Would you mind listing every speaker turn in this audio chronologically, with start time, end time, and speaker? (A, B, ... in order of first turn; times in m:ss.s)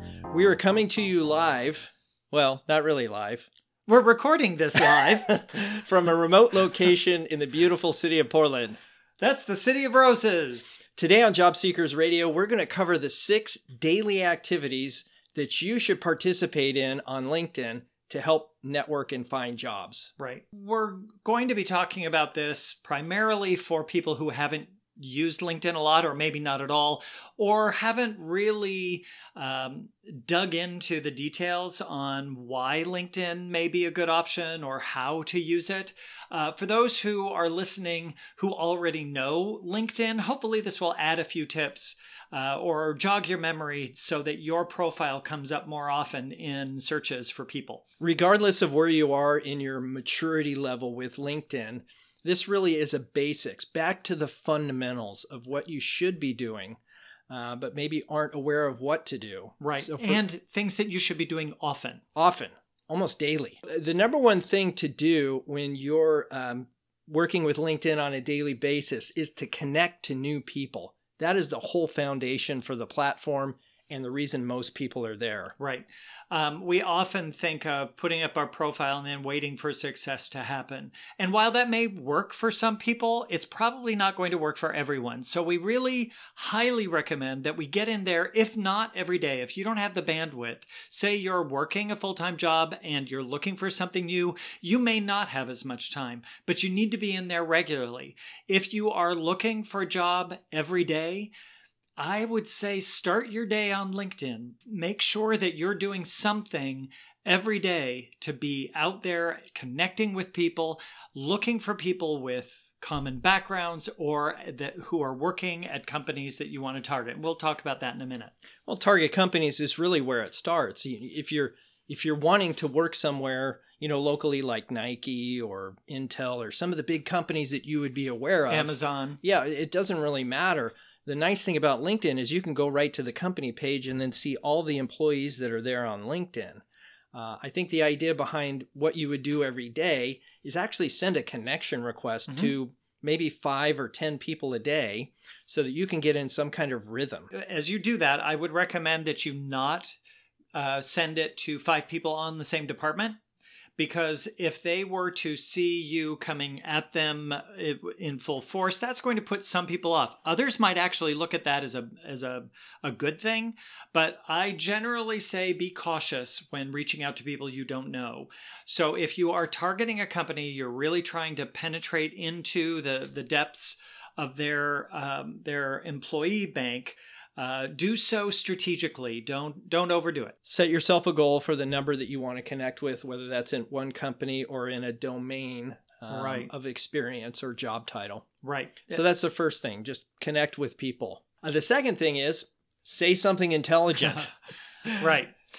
0:00.3-0:03.5 A
0:03.9-0:05.4 B
0:04.8-0:08.8 A
0:09.2-0:10.8 B
0:11.0-0:20.1 A
0:20.2-0:47.8 B
0:48.0-1:00.2 A
0:59.6-1:02.0 B
1:02.2-1:15.5 A
1:15.6-1:41.3 B
1:42.0-1:58.3 B
1:58.7-2:27.3 A
2:08.5-2:09.2 B
2:22.3-2:22.5 B
2:27.3-2:30.0 B
2:30.6-2:33.2 B
2:33.8-3:00.4 B
3:00.4-3:08.3 A
3:06.1-3:06.5 B
3:08.4-3:09.0 B
3:08.9-3:14.3 A
3:15.0-3:15.4 B